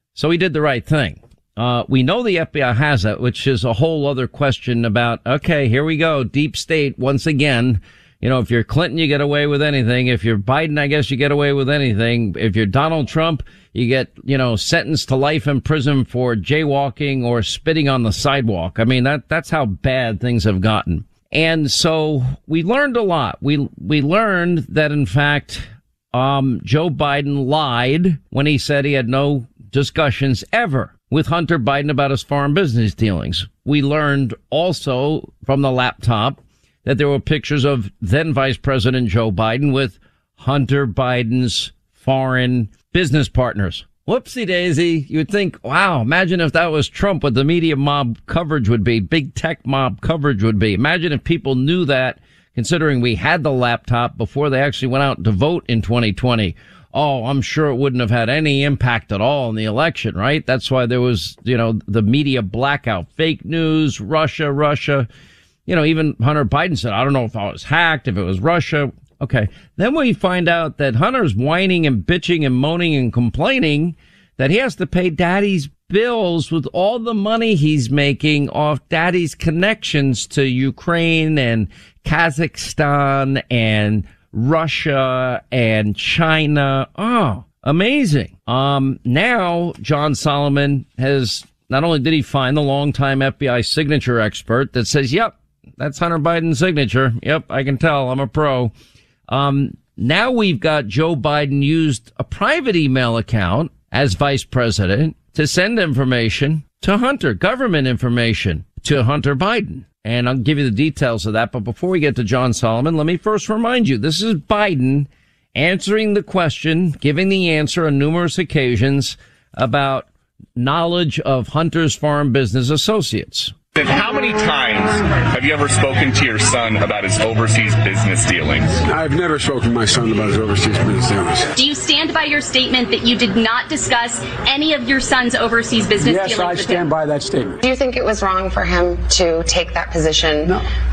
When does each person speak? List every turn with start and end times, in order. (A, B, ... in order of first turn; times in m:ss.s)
0:00.2-1:05.1 A
1:05.7-1:38.7 A
1:39.3-2:03.5 A
2:03.8-2:08.8 B
2:08.8-2:11.5 C
2:11.5-2:16.9 D
2:16.0-2:17.6 C
2:17.6-2:20.5 E